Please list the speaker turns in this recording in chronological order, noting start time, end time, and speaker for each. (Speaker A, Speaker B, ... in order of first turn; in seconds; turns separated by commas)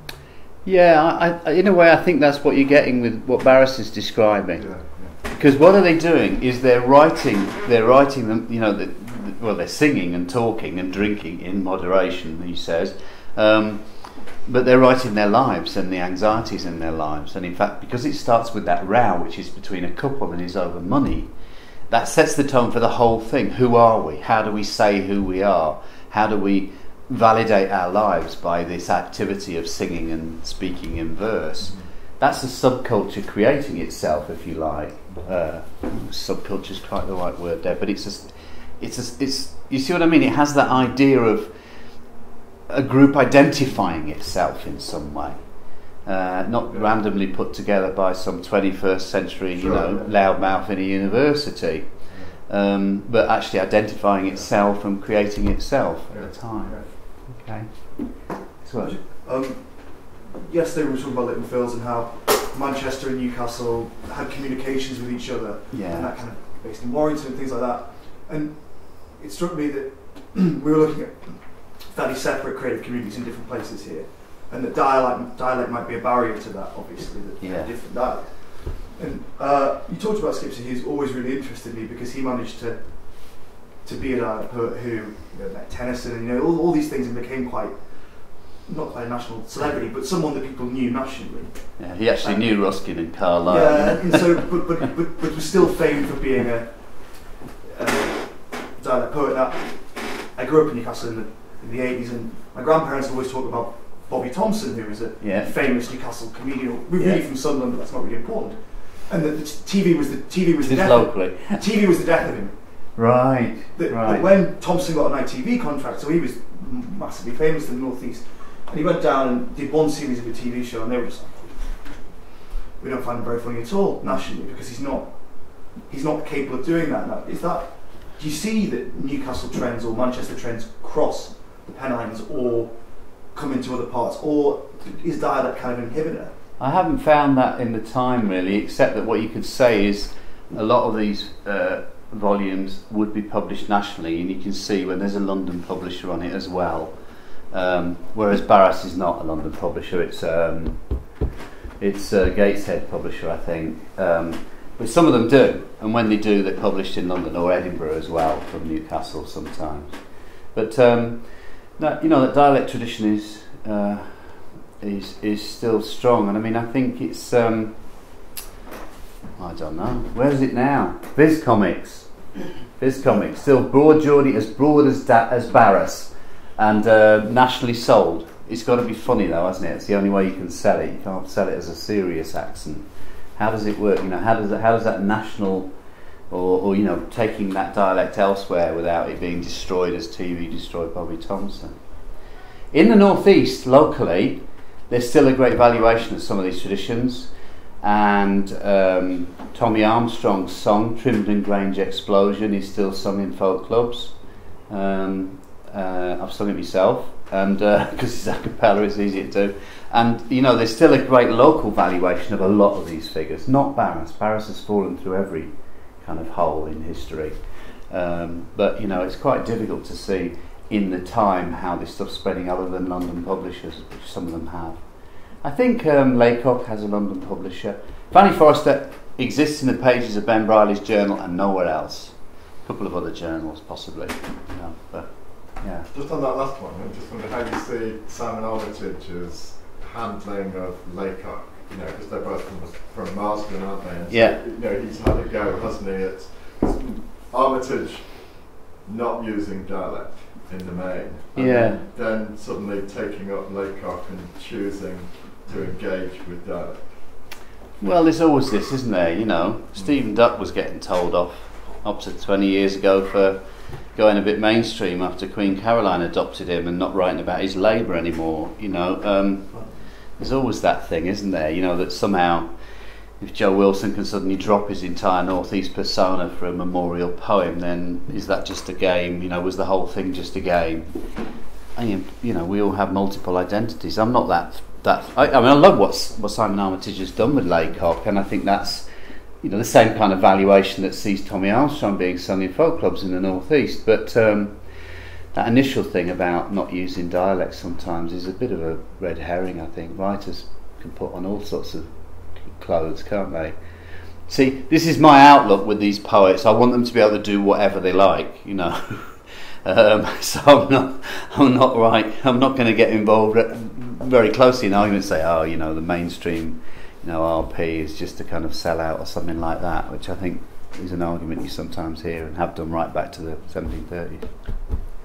Speaker A: 0.6-21.3, Speaker B: 4.5-5.2, Speaker A: 21.9-59.0, Speaker B: 31.6-31.9, Speaker B: 49.5-50.1, Speaker B: 52.1-52.4, Speaker B: 56.1-56.9, Speaker C: 58.8-113.0, Speaker A: 65.7-66.2, Speaker A: 77.4-77.8, Speaker A: 91.8-94.7, Speaker A: 105.2-105.5, Speaker A: 107.0-107.2, Speaker A: 110.6-111.6, Speaker A: 112.9-114.2, Speaker C: 113.7-122.1, Speaker C: 122.8-136.3, Speaker A: 124.0-124.3, Speaker A: 136.6-151.1, Speaker A: 151.8-168.1, Speaker A: 169.4-185.7, Speaker A: 186.3-191.8, Speaker A: 192.7-204.2, Speaker A: 204.7-235.9, Speaker B: 235.9-257.0, Speaker A: 244.1-244.4, Speaker A: 251.3-251.8, Speaker A: 257.8-263.4, Speaker A: 263.9-272.5, Speaker C: 269.5-269.8, Speaker A: 273.2-281.0, Speaker A: 281.8-288.9, Speaker A: 289.4-294.6, Speaker A: 295.3-303.6, Speaker A: 304.3-324.4